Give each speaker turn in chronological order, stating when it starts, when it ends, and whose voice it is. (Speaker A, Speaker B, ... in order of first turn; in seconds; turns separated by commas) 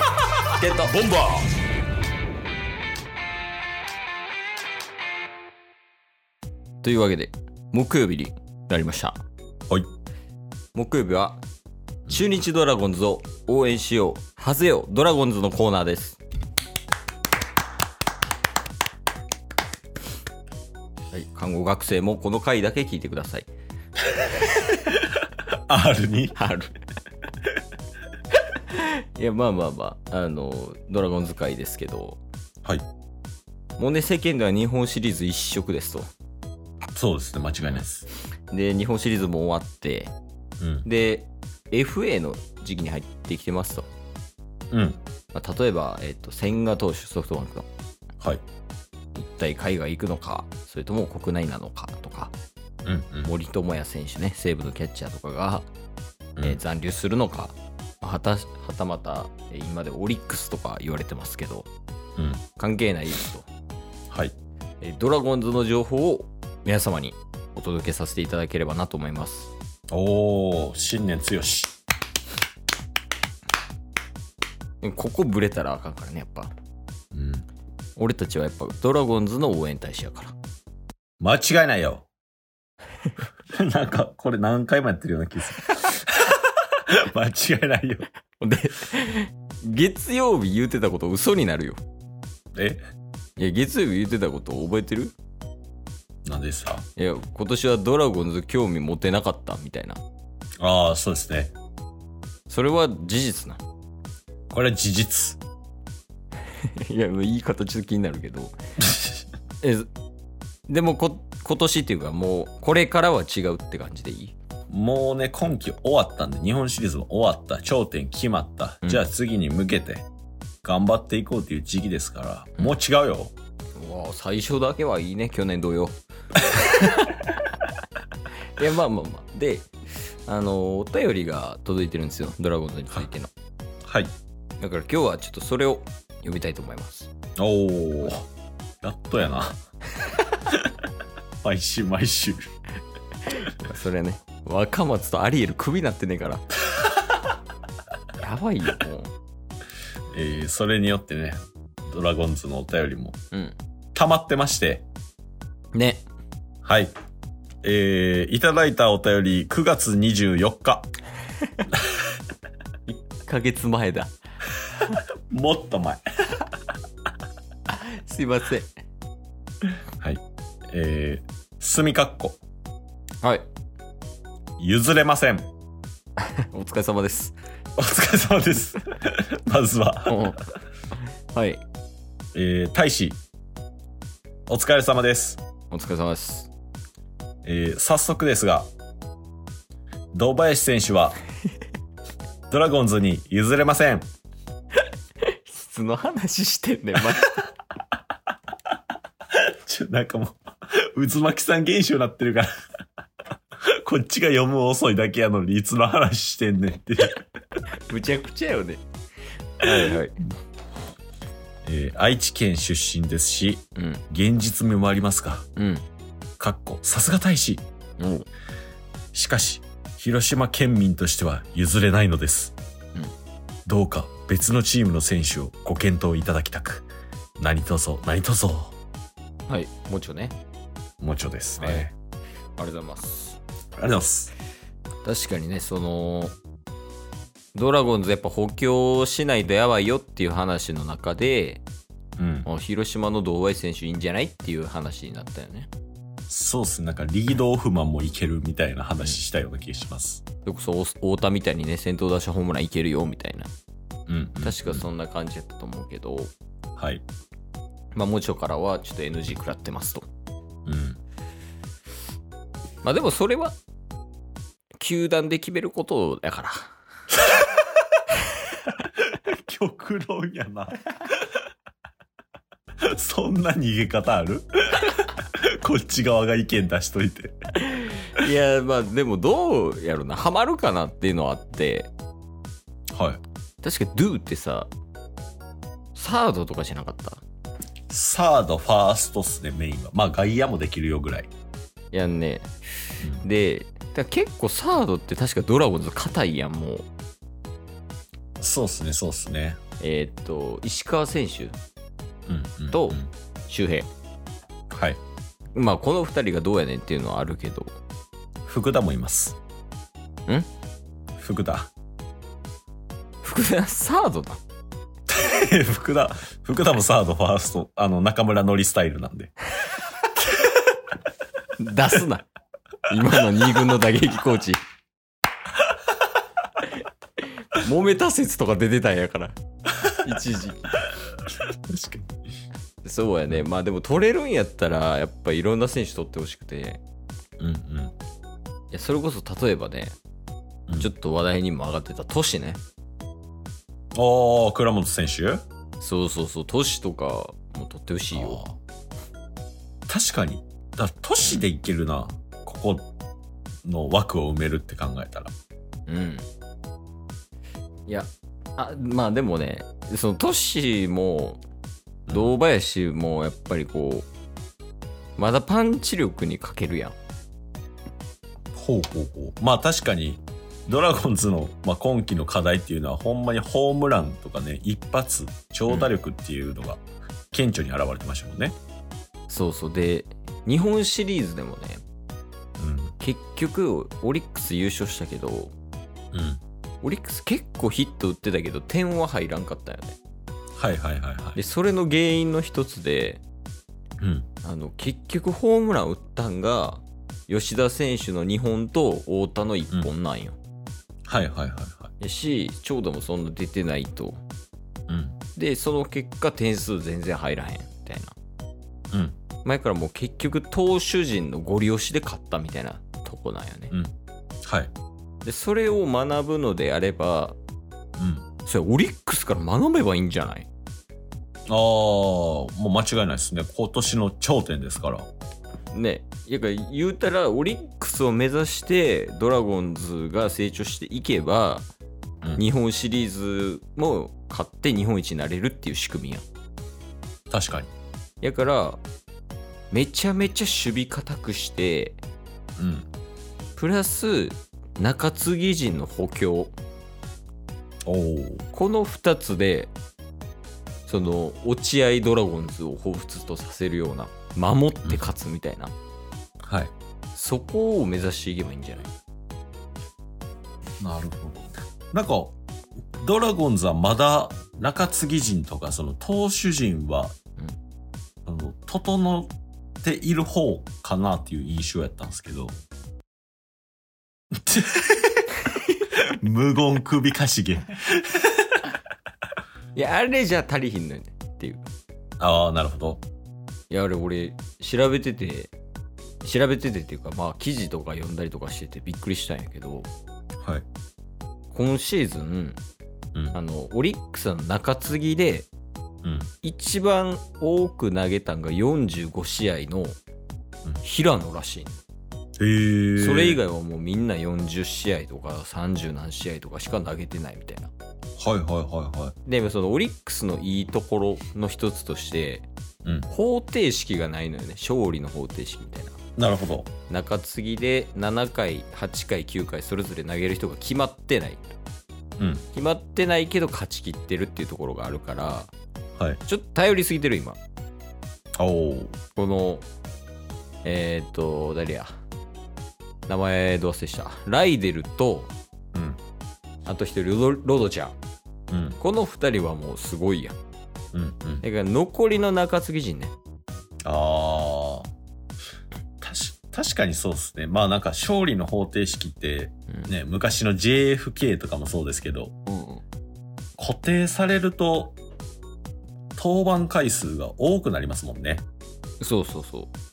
Speaker A: 0.6-1.0, Speaker B: 0.9-1.5, Speaker A: 6.8-9.2, Speaker A: 10.8-11.4, Speaker A: 12.1-16.2, Speaker A: 21.1-23.5, Speaker B: 25.5-26.4, Speaker A: 26.4-26.8, Speaker A: 28.5-32.2, Speaker A: 33.8-36.1, Speaker B: 37.0-38.0, Speaker A: 37.6-37.9, Speaker A: 38.5-40.1, Speaker B: 40.6-40.9, Speaker A: 40.9-43.9, Speaker B: 44.7-45.0, Speaker A: 45.3-47.7, Speaker A: 49.2-52.3, Speaker B: 52.9-53.3, Speaker A: 53.2-55.7, Speaker A: 56.4-61.7, Speaker B: 62.2-62.4, Speaker A: 62.6-63.5, Speaker B: 64.1-64.3, Speaker A: 64.8-69.5, Speaker B: 69.9-71.7, Speaker A: 74.8-76.5, Speaker B: 77.1-77.5, Speaker A: 78.0-80.3, Speaker B: 81.2-82.1, Speaker B: 83.5-88.0, Speaker A: 88.4-91.8, Speaker B: 92.5-92.8, Speaker A: 93.4-95.2, Speaker B: 96.2-96.9, Speaker A: 97.0-100.0, Speaker B: 100.6-101.5, Speaker A: 102.5-103.6, Speaker B: 104.5-105.4, Speaker A: 106.5-108.5, Speaker B: 108.8-109.2, Speaker A: 109.6-109.9, Speaker A: 110.7-114.3, Speaker B: 114.7-120.1, Speaker B: 120.6-123.3, Speaker A: 123.8-127.3, Speaker A: 128.6-129.7, Speaker A: 130.3-133.3, Speaker B: 133.9-134.1, Speaker A: 134.6-137.1, Speaker B: 137.4-138.3, Speaker B: 138.8-139.6, Speaker B: 141.4-142.5, Speaker A: 143.3-146.5, Speaker A: 148.2-149.1, Speaker B: 150.1-153.2, Speaker B: 153.9-154.9, Speaker A: 155.8-156.0, Speaker B: 156.6-156.9, Speaker B: 157.6-160.9, Speaker A: 162.9-164.1, Speaker B: 165.3-166.4, Speaker A: 167.7-168.7, Speaker B: 170.0-172.4, Speaker B: 174.6-175.5, Speaker A: 176.2-177.4, Speaker B: 177.8-180.4, Speaker A: 180.1-180.5, Speaker A: 181.3-181.6, Speaker B: 182.3-183.2, Speaker B: 184.5-185.4, Speaker A: 185.7-186.5, Speaker B: 187.4-188.7, Speaker B: 190.1-191.2, Speaker B: 192.5-194.1, Speaker A: 195.2-197.5, Speaker B: 199.4-202.5, Speaker B: 203.7-207.2, Speaker A: 207.8-208.8, Speaker A: 209.6-210.2, Speaker B: 211.7-215.5, Speaker A: 213.8-214.0, Speaker A: 215.6-215.8, Speaker B: 216.4-217.6, Speaker A: 218.0-218.3, Speaker B: 219.1-222.6, Speaker B: 223.7-226.9, Speaker B: 227.4-228.8, Speaker A: 229.5-230.4, Speaker B: 231.0-231.9, Speaker A: 231.6-231.9, Speaker A: 232.6-233.4, Speaker B: 233.8-234.3, Speaker A: 235.1-236.3, Speaker A: 237.6-241.6, Speaker B: 242.2-242.5, Speaker A: 242.4-245.7, Speaker B: 246.3-250.2, Speaker A: 250.4-253.5, Speaker B: 254.1-254.8, Speaker A: 254.4-256.3, Speaker B: 256.8-257.1, Speaker A: 257.9-260.0, Speaker B: 260.7-261.0, Speaker A: 262.8-263.6, Speaker A: 264.8-266.7, Speaker B: 268.9-271.2, Speaker B: 272.8-277.4, Speaker A: 277.7-281.9, Speaker B: 282.9-283.2, Speaker A: 283.6-284.7, Speaker A: 285.9-287.2, Speaker B: 287.9-291.3, Speaker A: 291.9-292.5, Speaker B: 293.0-293.3, Speaker A: 293.2-296.9, Speaker B: 298.4-299.6, Speaker A: 299.8-301.6, Speaker B: 302.3-303.1, Speaker A: 302.7-303.9, Speaker B: 304.7-305.0, Speaker A: 305.6-307.8, Speaker B: 308.5-309.4, Speaker B: 311.2-311.7, Speaker A: 313.2-314.4, Speaker B: 315.1-319.3, Speaker A: 321.6-322.3, Speaker A: 322.9-324.6, Speaker A: 326.6-330.8, Speaker B: 331.4-332.1, Speaker A: 332.8-336.8, Speaker B: 337.4-337.9, Speaker A: 338.7-339.9, Speaker A: 340.8-342.6, Speaker B: 343.9-345.4, Speaker A: 345.8-348.4, Speaker B: 348.1-348.6, Speaker B: 349.9-352.9, Speaker B: 353.6-355.3, Speaker A: 355.9-356.3, Speaker A: 357.9-361.4, Speaker B: 362.1-362.3, Speaker A: 362.1-364.1, Speaker A: 365.2-366.9, Speaker B: 368.5-378.6, Speaker A: 375.7-375.9, Speaker A: 379.3-381.8, Speaker B: 382.6-382.9, Speaker A: 383.0-385.5, Speaker B: 386.1-386.4, Speaker A: 386.8-390.0, Speaker B: 390.6-391.4, Speaker A: 391.4-393.2, Speaker B: 394.0-394.3, Speaker A: 394.4-400.4, Speaker B: 401.1-401.9, Speaker A: 402.0-404.2, Speaker B: 404.9-405.2, Speaker A: 405.4-408.1, Speaker B: 408.9-409.2, Speaker A: 409.4-413.7, Speaker B: 414.4-414.7, Speaker A: 415.2-417.4, Speaker B: 418.0-418.3, Speaker A: 418.4-420.5, Speaker B: 421.5-425.1, Speaker A: 425.7-431.7, Speaker A: 432.4-436.2, Speaker B: 437.3-437.7, Speaker A: 438.2-438.8, Speaker A: 439.7-442.0, Speaker B: 442.6-442.9, Speaker A: 443.6-446.5, Speaker B: 447.9-448.4, Speaker A: 448.5-449.7, Speaker A: 450.9-455.7, Speaker B: 456.4-456.7, Speaker A: 457.2-458.9, Speaker B: 460.8-462.3, Speaker B: 462.9-467.1, Speaker B: 468.3-469.3, Speaker B: 469.8-472.6, Speaker B: 474.4-475.0, Speaker B: 475.9-478.6, Speaker A: 479.8-481.6, Speaker B: 482.2-483.0, Speaker A: 483.7-485.5, Speaker A: 486.2-489.9, Speaker A: 491.5-492.6, Speaker A: 493.3-495.5, Speaker B: 496.0-496.3, Speaker A: 496.4-500.0, Speaker A: 500.8-501.8, Speaker B: 502.4-503.4, Speaker A: 503.0-507.7, Speaker B: 508.2-509.1, Speaker A: 509.2-512.5, Speaker A: 513.1-516.0, Speaker B: 516.2-516.7, Speaker A: 516.9-521.5, Speaker B: 522.2-522.5, Speaker A: 522.5-525.5, Speaker A: 526.2-527.4, Speaker B: 528.4-529.0, Speaker A: 529.1-529.6, Speaker A: 530.6-531.9, Speaker A: 533.1-535.3, Speaker B: 535.7-536.0, Speaker A: 536.7-538.0, Speaker B: 538.5-538.8, Speaker A: 538.8-540.4, Speaker B: 540.9-541.5, Speaker A: 541.4-543.1, Speaker B: 543.8-544.9, Speaker B: 546.0-552.3, Speaker A: 552.5-552.8, Speaker B: 553.6-555.0, Speaker B: 556.2-558.5, Speaker A: 559.0-559.7